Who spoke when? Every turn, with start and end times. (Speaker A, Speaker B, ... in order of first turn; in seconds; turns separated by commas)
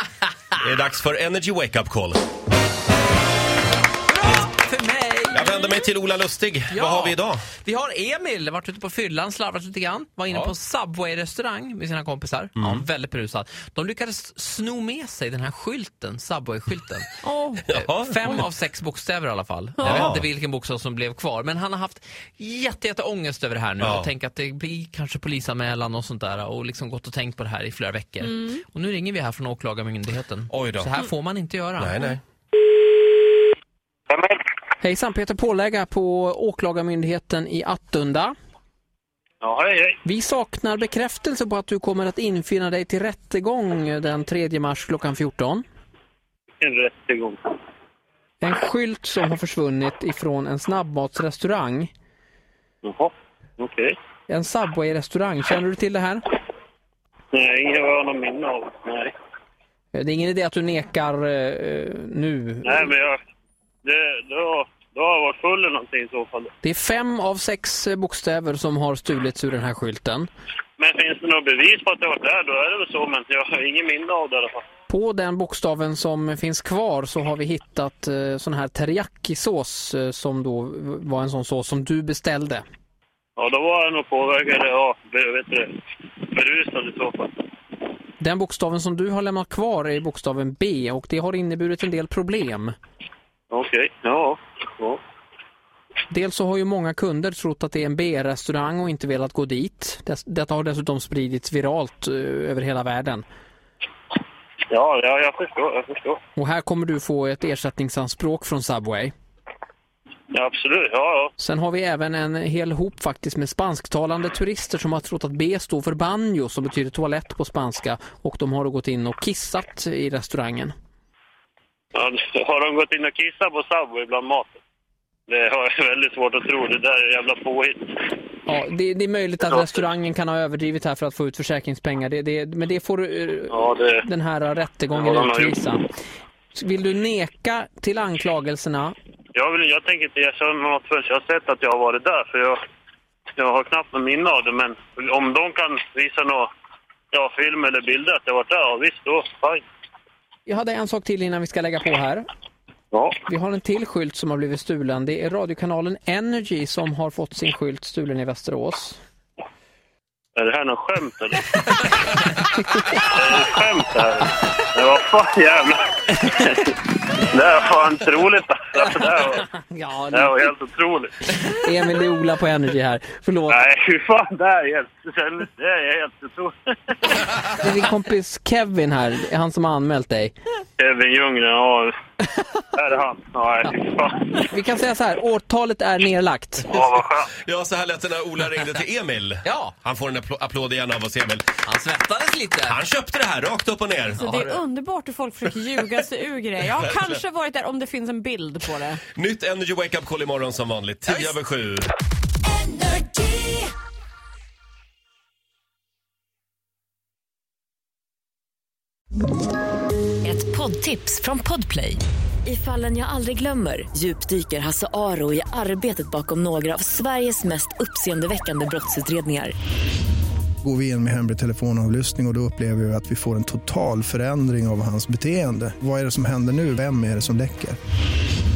Speaker A: 0.6-2.2, Speaker B: 4.1-5.7, Speaker A: 5.3-7.4, Speaker B: 6.7-17.1, Speaker A: 12.6-12.8, Speaker C: 17.2-17.7, Speaker B: 17.7-31.9, Speaker A: 17.7-18.4, Speaker A: 19.8-20.2, Speaker A: 23.8-24.1, Speaker C: 28.2-28.6, Speaker A: 30.5-31.0, Speaker A: 31.8-32.2, Speaker D: 34.1-34.4, Speaker E: 34.8-38.3, Speaker D: 39.4-40.0, Speaker E: 40.0-45.6, Speaker D: 46.6-47.4, Speaker E: 48.4-51.9, Speaker D: 52.8-53.9, Speaker E: 54.3-56.2, Speaker D: 57.3-59.1, Speaker E: 59.9-62.9, Speaker D: 62.6-63.2, Speaker D: 63.8-66.5, Speaker E: 66.6-70.3, Speaker D: 70.8-74.6, Speaker E: 74.9-82.6, Speaker D: 83.4-85.7, Speaker D: 86.3-87.3, Speaker E: 88.2-92.7, Speaker D: 93.5-95.0, Speaker E: 96.1-103.2, Speaker D: 104.7-106.2, Speaker E: 106.4-109.1, Speaker D: 110.3-111.3, Speaker E: 111.4-120.7, Speaker D: 121.9-124.6, Speaker D: 125.3-127.9, Speaker E: 128.5-135.8, Speaker D: 133.5-134.0, Speaker D: 134.9-135.6, Speaker E: 136.5-138.9, Speaker D: 139.3-142.6, Speaker D: 143.4-146.5, Speaker D: 147.1-149.6, Speaker E: 150.5-152.2, Speaker E: 153.3-159.0, Speaker D: 160.4-161.4, Speaker E: 162.5-163.1, Speaker D: 163.1-166.5, Speaker D: 167.3-169.4, Speaker E: 169.3-170.5, Speaker D: 170.1-171.2, Speaker E: 171.3-173.6, Speaker D: 173.5-177.2, Speaker E: 177.6-180.3, Speaker D: 180.8-181.9, Speaker D: 182.8-184.4, Speaker E: 184.5-186.7, Speaker D: 186.7-187.3, Speaker A: 187.3-191.5, Speaker B: 189.4-189.7, Speaker B: 191.6-192.8, Speaker A: 192.7-194.3, Speaker C: 194.1-199.0, Speaker B: 194.2-194.6, Speaker A: 196.7-197.2, Speaker A: 199.1-201.9, Speaker F: 210.2-219.5, Speaker G: 220.6-227.8